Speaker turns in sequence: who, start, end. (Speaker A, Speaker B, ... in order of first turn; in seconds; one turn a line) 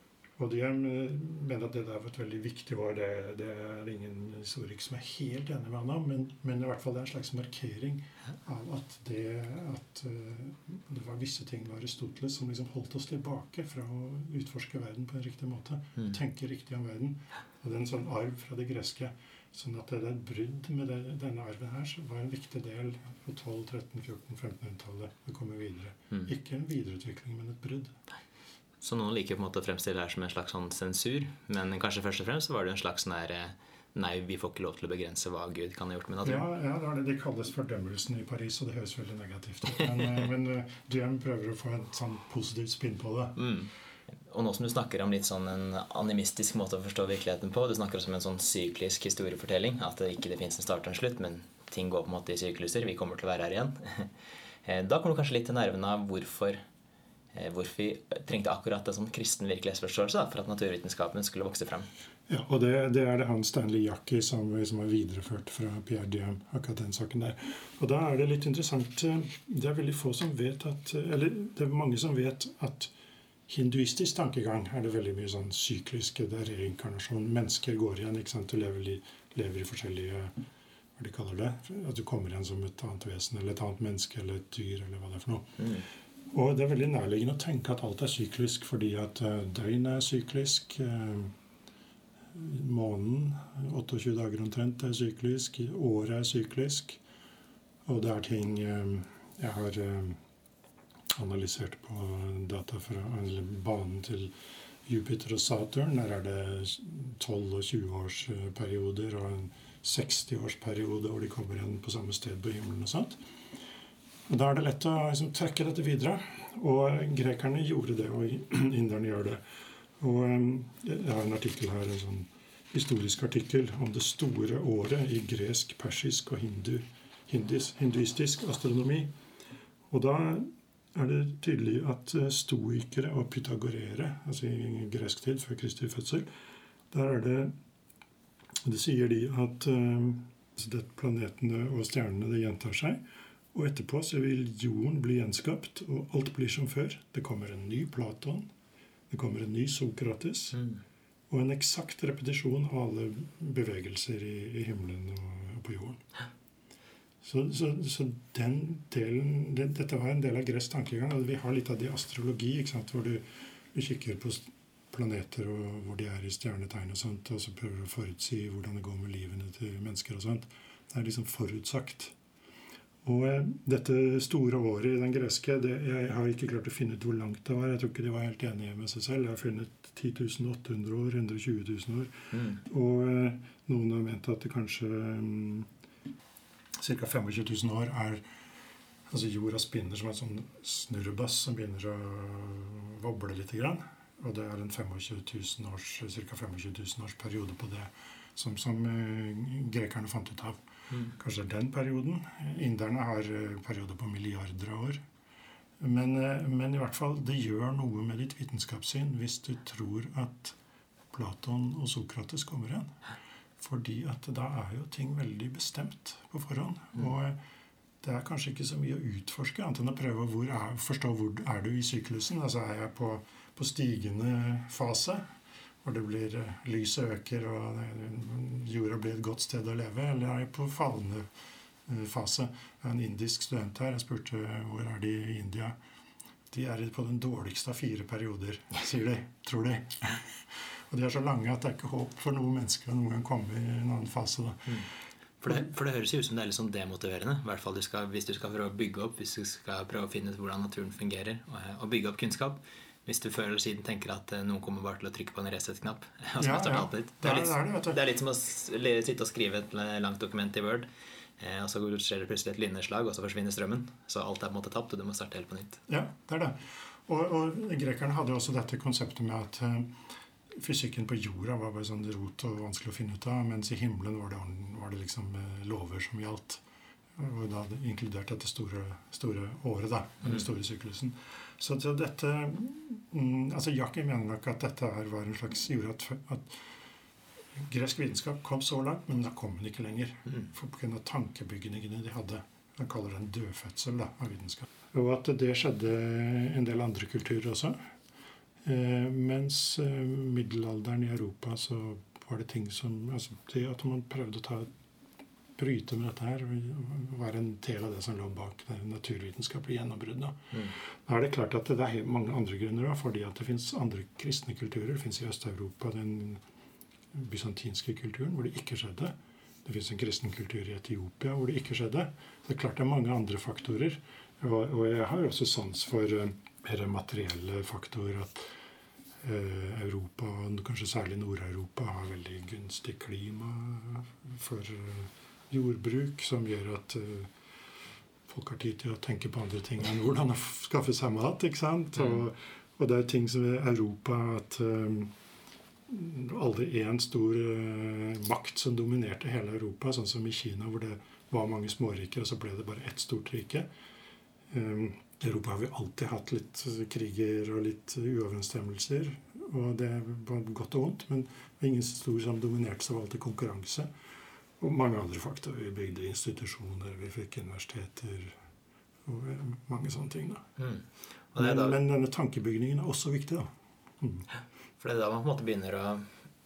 Speaker A: 0.4-28.0
Speaker B: 28.8-36.5
Speaker A: 36.2-43.5
Speaker B: 43.4-43.7
Speaker B: 44.2-54.1
Speaker B: 54.6-56.6
Speaker B: 57.3-61.9
Speaker A: 62.3-72.9
Speaker A: 73.5-80.3
Speaker A: 81.0-91.3
Speaker B: 85.6-85.8
Speaker A: 92.3-97.0
Speaker A: 97.9-100.2
Speaker A: 101.2-104.3
Speaker A: 104.9-113.2
Speaker A: 114.3-119.4
Speaker A: 120.0-129.1
Speaker A: 129.9-136.3
Speaker A: 136.9-137.5
Speaker A: 138.7-143.0
Speaker A: 143.5-148.5
Speaker A: 149.1-150.6
Speaker A: 151.3-156.1
Speaker A: 157.2-172.2
Speaker A: 173.0-185.7
Speaker B: 182.3-182.6
Speaker A: 186.8-188.2
Speaker A: 189.1-205.0
Speaker A: 205.8-210.6
Speaker A: 211.1-213.0
Speaker A: 213.6-217.4
Speaker A: 218.0-225.3
Speaker A: 225.8-231.3
Speaker A: 231.9-235.8
Speaker A: 236.5-244.9
Speaker B: 245.4-260.9
Speaker A: 256.4-258.0
Speaker B: 261.4-265.8
Speaker A: 265.9-270.0
Speaker A: 270.6-276.6
Speaker A: 277.2-286.6
Speaker A: 287.6-297.8
Speaker A: 298.6-304.7
Speaker A: 305.6-316.4
Speaker A: 317.1-328.5
Speaker A: 329.2-337.3
Speaker A: 338.3-345.1
Speaker A: 345.9-353.7
Speaker A: 354.5-363.9
Speaker A: 364.6-368.4
Speaker A: 369.1-370.5
Speaker B: 370.6-371.8
Speaker A: 371.4-374.3
Speaker B: 374.8-376.1